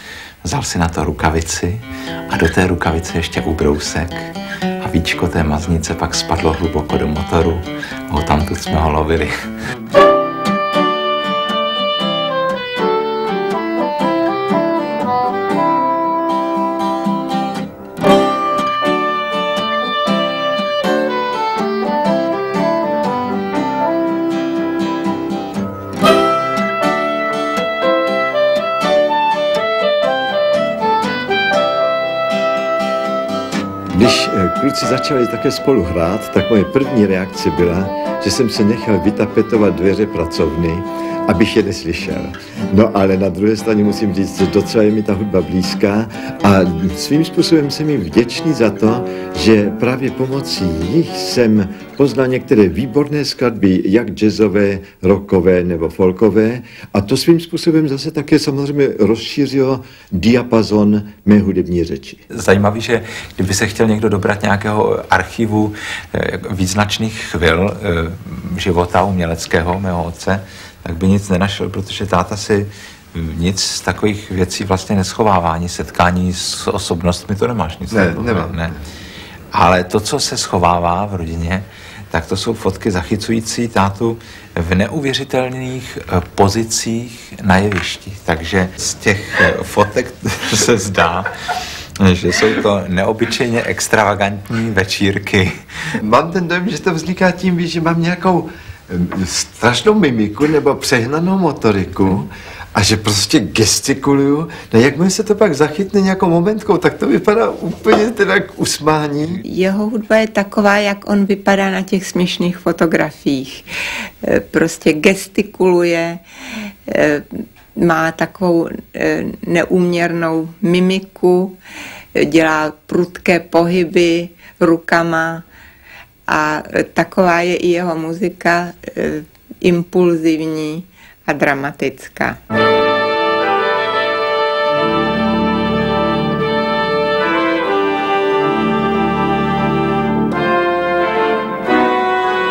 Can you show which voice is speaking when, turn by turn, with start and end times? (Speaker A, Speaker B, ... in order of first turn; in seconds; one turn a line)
Speaker A: 0.4-9.5
Speaker B: 33.9-62.2
Speaker A: 62.3-78.7
Speaker B: 77.9-78.6
Speaker A: 79.5-95.9
Speaker B: 96.0-109.4
Speaker C: 109.4-113.7
Speaker C: 114.2-116.2
Speaker C: 116.9-121.6
Speaker C: 122.2-125.5
Speaker C: 126.3-132.4